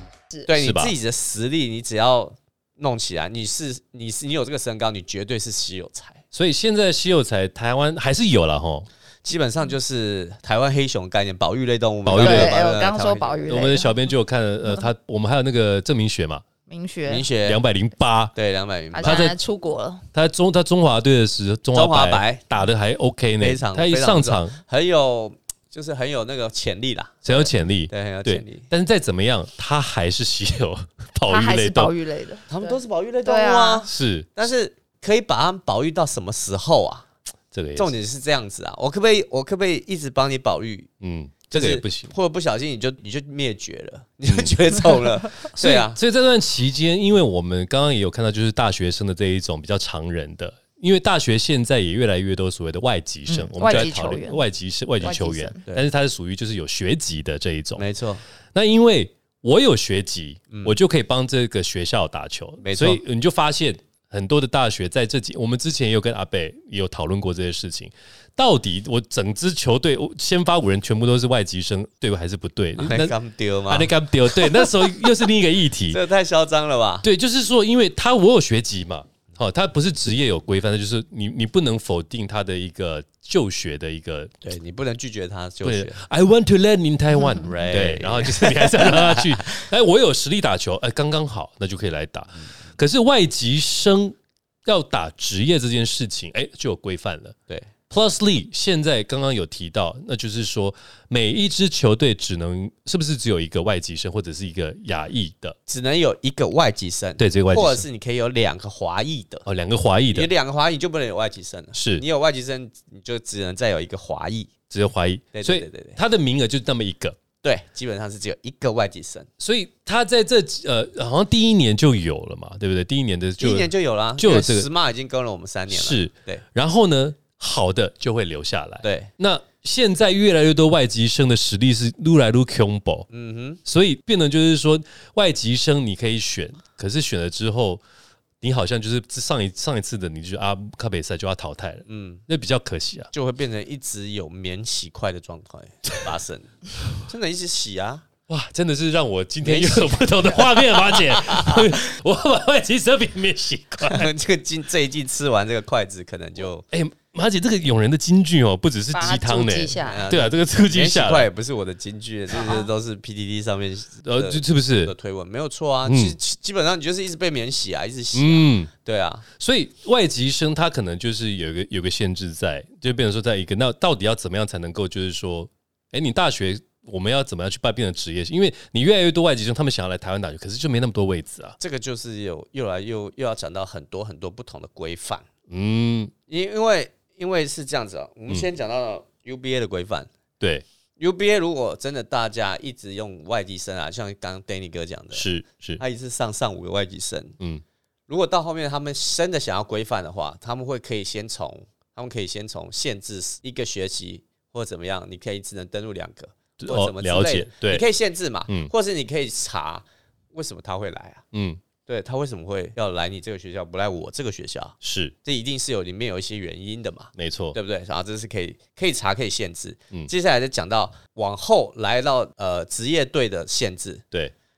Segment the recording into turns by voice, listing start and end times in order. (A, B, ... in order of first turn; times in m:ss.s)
0:00.5-0:06.2 A
0:00.5-0:01.0 B
0:06.3-0:08.9 B
0:09.2-0:13.4 A
0:12.0-0:12.6 B
0:12.2-0:14.0 C
0:13.5-0:16.4 B
0:16.7-0:17.3 C
0:17.1-0:17.6 A
0:17.4-0:18.3 B
0:18.4-0:19.3 A
0:18.9-0:20.0 C
0:19.0-0:19.4 B
0:20.1-0:24.6 B
0:21.7-0:22.5 A
0:23.4-0:28.7 A
0:27.2-0:31.9 B
0:31.3-0:33.9 C
0:32.5-0:37.1 A
0:33.9-0:34.3 B
0:37.5-0:37.9 B
0:37.8-0:40.9 A
0:41.0-0:42.1 B
0:41.5-0:46.0 A
0:44.3-0:44.5 B
0:45.5-0:57.8 B
0:53.3-0:54.5 C
0:55.0-0:55.6 C
0:57.8-0:58.2 A
0:58.5-1:13.2 B
1:00.5-1:00.8 A
1:02.6-1:03.0 A
1:12.8-1:15.2 A
1:13.7-1:16.0 B
1:15.9-1:17.1 A
1:17.0-1:24.3 B
1:24.4-1:26.0 A
1:25.6-1:37.4 B
1:27.4-1:29.6 A
1:37.9-1:45.6 B
1:45.7-1:49.5 A
1:47.2-1:47.9 B
1:49.5-1:50.3 B
1:50.1-1:54.5 A
1:51.8-1:52.0 B
1:54.7-1:57.2 B
1:55.3-1:56.0 A
1:57.4-1:59.3 A
1:59.4-2:04.7 B
2:03.4-2:06.4 A
2:05.7-2:13.1 B
2:08.8-2:09.1 A
2:13.1-2:13.6 A
2:13.6-2:17.8 B
2:18.4-2:23.1 B
2:21.9-2:22.2 A
2:23.1-2:28.0 A
2:28.3-2:34.1 B
2:29.4-2:31.7 A
2:33.8-2:36.6 A
2:36.7-2:41.3 B
2:38.9-2:40.1 C
2:39.9-2:49.3 A
2:44.0-2:44.9 B
2:45.8-2:46.2 B
2:48.1-2:48.7 B
2:49.4-3:01.6 B
3:01.6-3:05.2 A
3:05.5-3:06.1 B
3:06.3-3:10.1 A
3:10.4-3:10.6 B
3:11.0-3:15.3 A
3:15.1-3:15.8 B
3:15.8-3:17.4 A
3:18.1-3:31.2 A
3:26.6-3:27.8 B
3:31.3-3:31.6 B
3:31.9-3:44.0 A
3:34.8-3:35.1 B
3:37.2-3:37.6 B